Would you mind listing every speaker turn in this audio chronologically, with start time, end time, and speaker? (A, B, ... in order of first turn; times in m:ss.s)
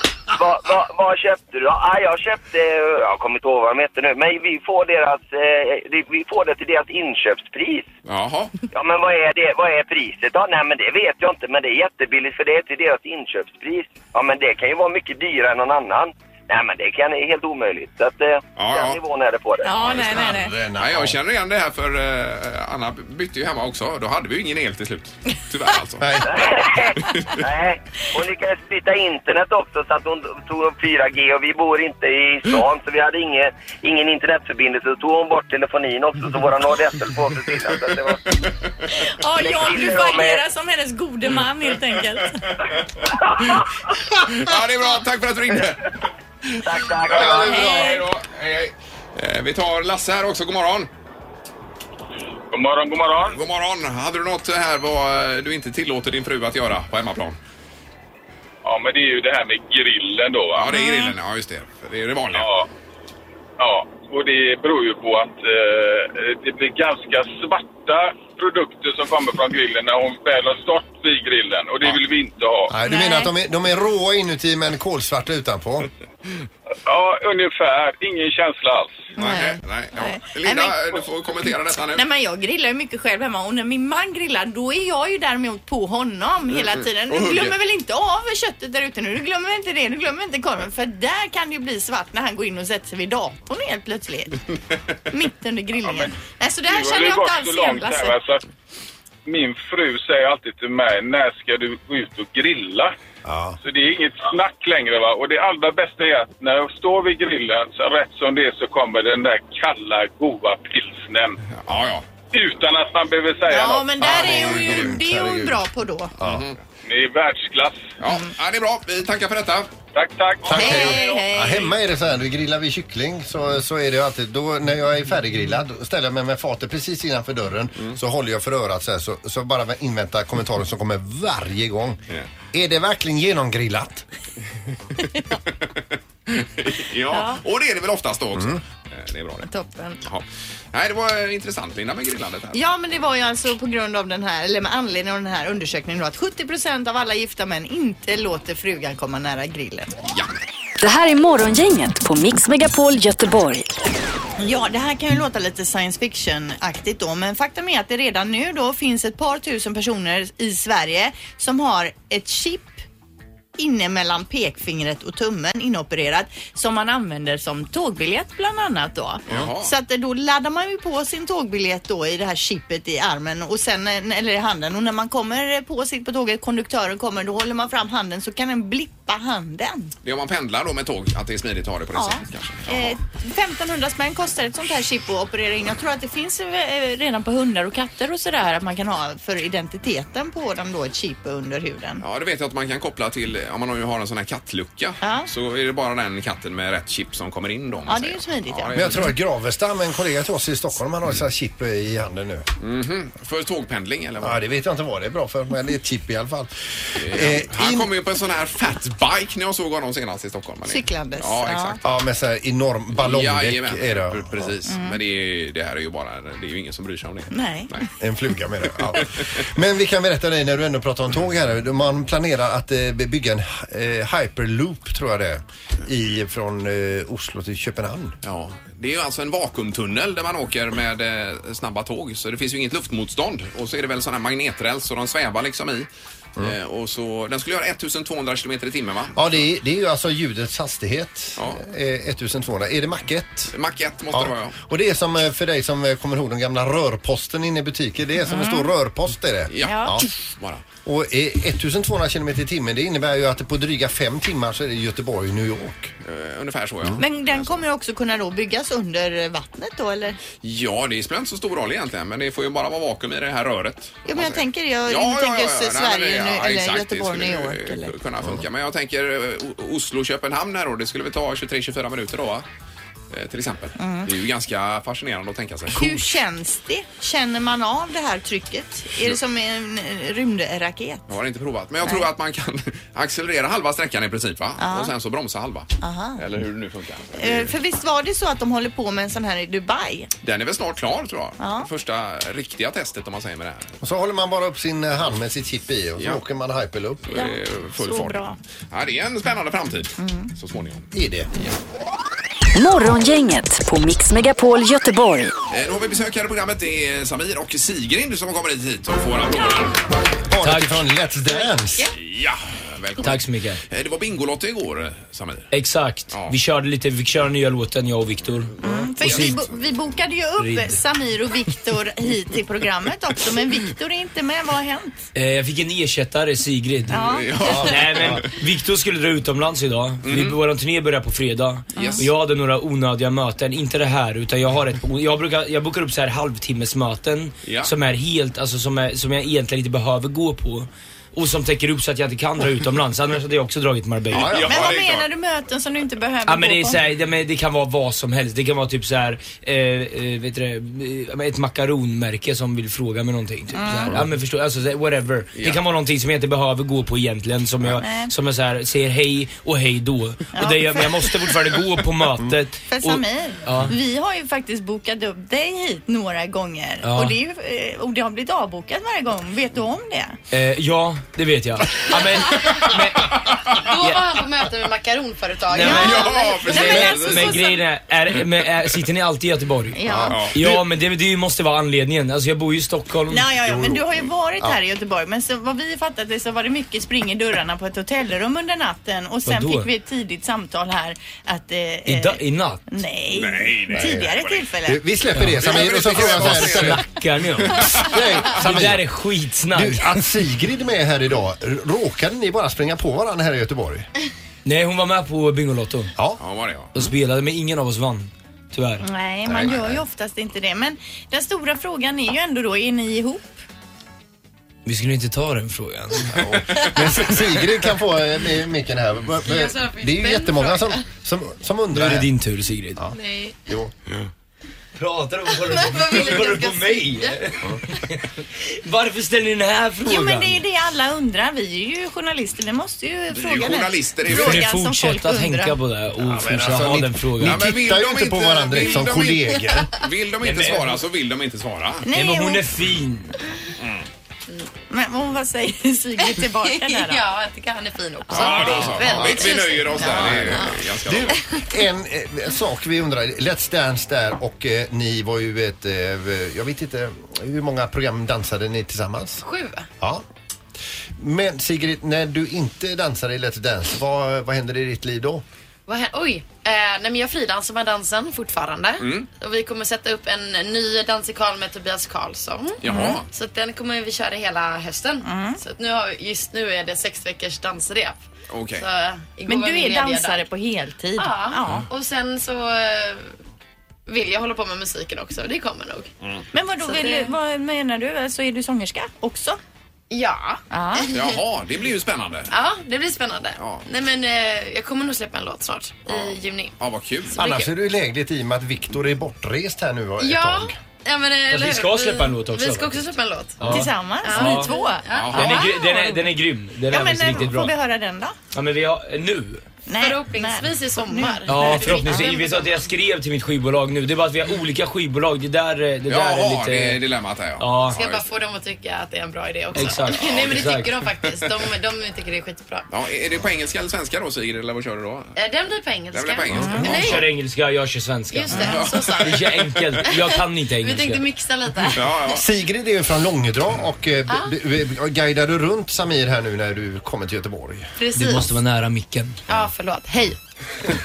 0:00.3-0:07.9 A
0:08.1-0:08.6 B
0:08.7-0:19.8 A
0:18.6-0:19.0 B
0:19.6-0:20.5 C
0:19.8-0:21.2 D
0:20.8-0:26.2 B
0:26.0-0:26.3 D
0:26.3-0:38.2 A
0:38.9-0:42.5 C
0:39.4-0:40.4 A
0:43.4-0:43.6 A
0:44.2-0:46.0 B
0:46.5-0:50.9 B
0:46.6-0:47.9 A
0:47.2-0:48.0 C
0:52.5-0:53.4 E
0:53.3-0:57.4 B
0:58.6-1:00.8 E
1:00.6-1:02.5 B
1:00.7-1:01.1 C
1:02.3-1:02.7 E
1:03.6-1:12.8 E
1:12.7-1:15.9 D
1:12.8-1:13.3 C
1:16.9-1:19.1 E
1:19.2-1:21.0 C
1:19.2-1:22.0 B
1:21.9-1:34.4 C
1:27.1-1:27.6 B
1:35.1-1:38.2 C
1:35.8-1:36.1 E
1:36.7-1:38.4 E
1:39.3-1:42.9 E
1:43.2-1:43.6 D
1:43.6-1:51.4 E
1:51.6-1:52.0 B
1:52.3-1:54.0 E
1:53.5-1:56.1 C
1:54.0-1:54.9 B
1:54.0-1:55.6 D
1:56.2-1:56.6 B
1:56.8-1:57.9 E
1:58.0-1:59.7 B
1:59.9-2:01.0 E
2:00.4-2:12.0 D
2:00.5-2:01.8 C
2:12.5-2:14.1 D
2:15.8-2:19.5 B
2:17.1-2:17.4 C
2:19.5-2:20.0 C
2:20.0-2:22.6 B
2:22.5-2:29.9 C
2:30.8-2:33.7 F
2:34.4-2:42.8 C
2:43.6-2:59.9 C
2:49.3-2:49.7 B
3:00.0-3:03.0 B
3:01.9-3:12.0 C
3:12.0-3:19.1 B
3:15.0-3:15.3 C
3:17.9-3:19.1 C
3:18.7-3:22.5 D
3:22.6-3:24.4 B
3:24.2-3:27.9 D
3:27.0-3:31.9 B
3:30.7-3:31.8 C
3:31.8-3:34.5 D
3:32.9-3:37.9 B
3:34.7-3:35.0 C
3:37.3-3:37.7 C
3:38.0-3:48.2 D
3:48.2-3:59.4 B
3:59.1-4:03.5 D
4:03.5-4:04.6 B
4:04.1-4:10.1 D
4:08.3-4:08.7 C
4:09.5-4:10.6 B
4:09.6-4:10.0 C
4:10.8-4:15.9 D
4:16.0-4:17.6 B
4:17.0-4:20.2 C
4:20.4-4:32.5 B
4:24.1-4:27.9 C
4:33.1-4:36.1 B
4:33.8-4:34.1 C
4:35.7-4:41.0 C
4:41.1-4:47.5 B
4:44.6-4:44.9 C
4:45.8-4:46.2 C
4:47.2-4:50.1 C
4:50.2-4:53.7 B
4:51.4-4:51.7 C
4:53.8-4:57.0 D
4:57.0-5:01.6 B
4:57.1-4:58.4 C
5:00.0-5:00.3 C
5:00.9-5:01.3 D
5:02.5-5:05.3 F
5:05.5-5:09.8 B
5:10.3-5:11.9 D
5:10.4-5:10.8 G
5:11.3-5:11.9 C
5:12.0-5:15.5 B
5:13.0-5:13.6 G
5:15.5-5:19.4 G
5:16.1-5:16.4 B
5:18.6-5:25.0 C
5:19.0-5:19.4 B
5:20.4-5:20.8 G
5:25.1-5:27.0 G
5:26.9-5:27.8 C
5:26.9-5:28.2 B
5:27.4-5:28.2 D
5:27.6-5:44.3 G
5:30.0-5:30.4 B
5:31.8-5:32.1 C
5:37.4-5:37.7 B
5:44.1-5:44.7 D
5:44.1-5:45.1 B
5:44.4-5:46.8 C
5:46.3-6:03.7 G
5:53.5-5:54.0 C
5:55.3-5:55.6 B
5:57.8-5:58.1 C
6:00.4-6:01.4 C
6:02.7-6:10.1 C
6:06.8-6:07.2 G
6:10.3-6:13.1 G
6:13.6-6:16.0 H
6:15.5-6:19.8 G
6:15.6-6:17.6 C
6:15.6-6:17.4 B
6:19.8-6:20.3 C
6:19.8-6:20.6 D
6:20.1-6:20.4 B
6:20.3-6:23.2 G
6:23.1-6:34.8 C
6:23.5-6:23.9 D
6:29.3-6:29.7 G
6:31.9-6:32.6 G
6:33.1-6:34.5 B
6:33.7-6:34.1 D
6:34.6-6:36.9 D
6:35.2-6:36.9 B
6:36.2-6:37.7 G
6:37.4-6:38.3 B
6:37.5-6:38.9 D
6:38.4-6:40.0 G
6:39.5-6:43.9 D
6:44.4-6:45.9 G
6:46.2-6:46.8 B
6:46.7-6:48.8 G
6:48.8-6:53.3 C
6:49.3-6:49.7 D
6:54.6-6:56.2 G
6:56.1-7:02.1 D
6:59.2-7:00.9 H
7:01.7-7:02.9 G
7:02.9-7:03.4 H
7:03.5-7:03.7 D
7:04.8-7:10.4 G
7:05.3-7:07.1 H
7:09.8-7:15.6 C
7:13.1-7:14.5 B
7:14.1-7:17.6 G
7:16.0-7:19.7 D
7:17.2-7:21.9 B
7:20.2-7:20.8 G
7:21.9-7:22.5 C
7:21.9-7:23.1 G
7:23.6-7:23.8 B
7:24.7-7:27.0 C
7:26.0-7:30.5 H
7:28.1-7:31.2 B
7:28.1-7:30.4 C
7:28.9-7:29.3 D
7:29.9-7:39.2 D
7:39.2-7:39.6 H
7:41.0-7:45.2 D
7:45.7-7:52.6 H
7:48.8-7:49.1 B
7:52.6-7:53.0 B
7:52.7-7:53.0 C
7:53.1-7:58.0 H
7:55.1-7:55.4 C
7:58.3-7:58.6 B
7:58.6-8:00.2 H
7:59.3-8:01.6 C
8:01.0-8:03.2 H
8:03.9-8:05.9 H
8:06.3-8:09.4 C
8:06.6-8:07.1 H
8:09.9-8:11.1 H
8:10.5-8:10.9 C
8:10.9-8:12.3 B
8:12.3-8:16.6 H
8:13.4-8:13.6 B
8:15.9-8:17.2 B
8:17.1-8:17.5 H
8:17.2-8:20.6 D
8:20.0-8:25.5 H
8:21.3-8:22.9 G
8:23.4-8:23.7 G
8:23.4-8:26.1 C
8:24.9-8:25.4 B
8:25.2-8:27.5 G
8:26.7-8:28.2 C
8:28.3-8:29.5 G
8:29.7-8:32.4 C
8:29.8-8:32.4 H
8:31.3-8:36.8 G
8:35.9-8:38.1 B
8:37.4-8:37.8 G
8:37.7-8:42.7 H
8:39.5-8:40.7 G
8:39.6-8:40.5 B
8:42.7-8:45.1 B
8:45.2-8:47.1 H
8:45.9-8:47.1 B
8:46.6-8:48.4 G
8:48.1-8:49.3 H
8:48.3-8:49.9 B
8:49.0-8:51.0 G
8:49.9-8:52.1 H
8:51.7-8:52.2 B
8:52.1-8:57.7 D
8:57.8-8:58.4 H
8:58.0-8:59.2 G
8:59.3-9:00.2 H